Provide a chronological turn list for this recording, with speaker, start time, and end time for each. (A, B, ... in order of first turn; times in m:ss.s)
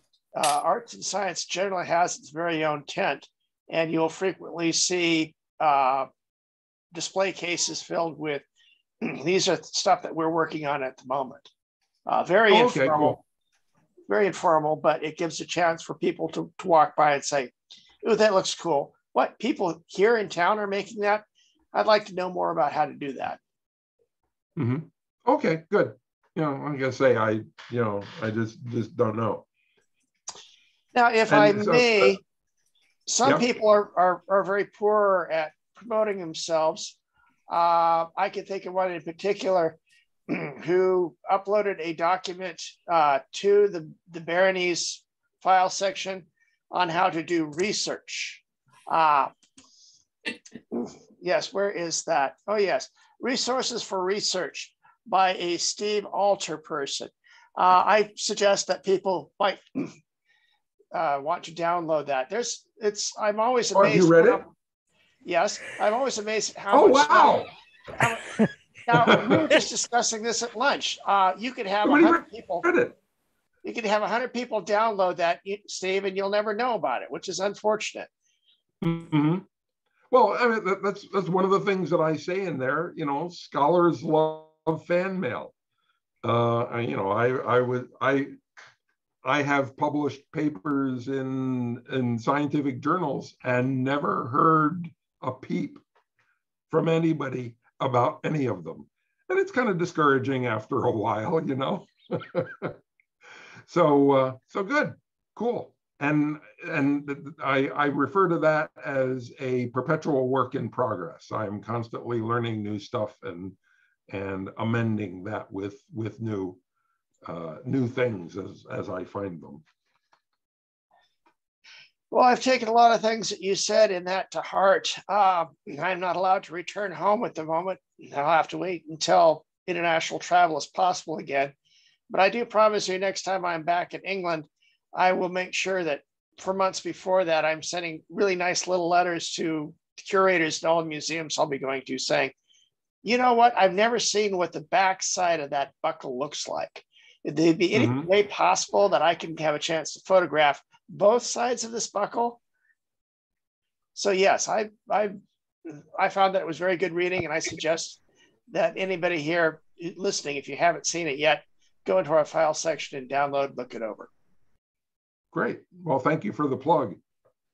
0:00.4-0:06.1 A
0:06.9-0:08.4 A
0:09.0-0:11.5 A
0:12.1-0:13.2 A
0:12.5-0:13.2 B
0:14.1-0:23.4 A
0:24.6-0:29.4 B
0:30.9-0:32.2 A
0:31.3-0:32.2 B
0:33.1-0:37.0 A
0:37.5-0:39.8 A
0:40.3-0:49.3 A
0:50.7-0:59.8 A
1:00.9-1:04.5 A
1:03.7-1:04.4 B
1:05.2-1:07.4 A
1:06.7-1:07.5 B
1:08.0-1:08.2 A
1:08.9-1:12.6 A
1:09.0-1:09.5 B
1:11.8-1:12.9 B
1:13.6-1:18.1 A
1:18.8-1:19.4 B
1:20.1-1:25.5 B
1:26.2-1:28.4 B
1:29.2-1:35.8 B
1:36.7-1:42.8 B
1:43.7-1:53.6 B
1:54.1-1:56.6 B
1:57.2-1:59.6 B
2:02.1-2:11.5 A
2:12.1-2:22.3 A
2:23.0-2:32.4 A
2:27.7-2:28.1 B
2:34.0-2:38.0 A
2:38.5-2:44.1 A
2:45.3-2:47.0 B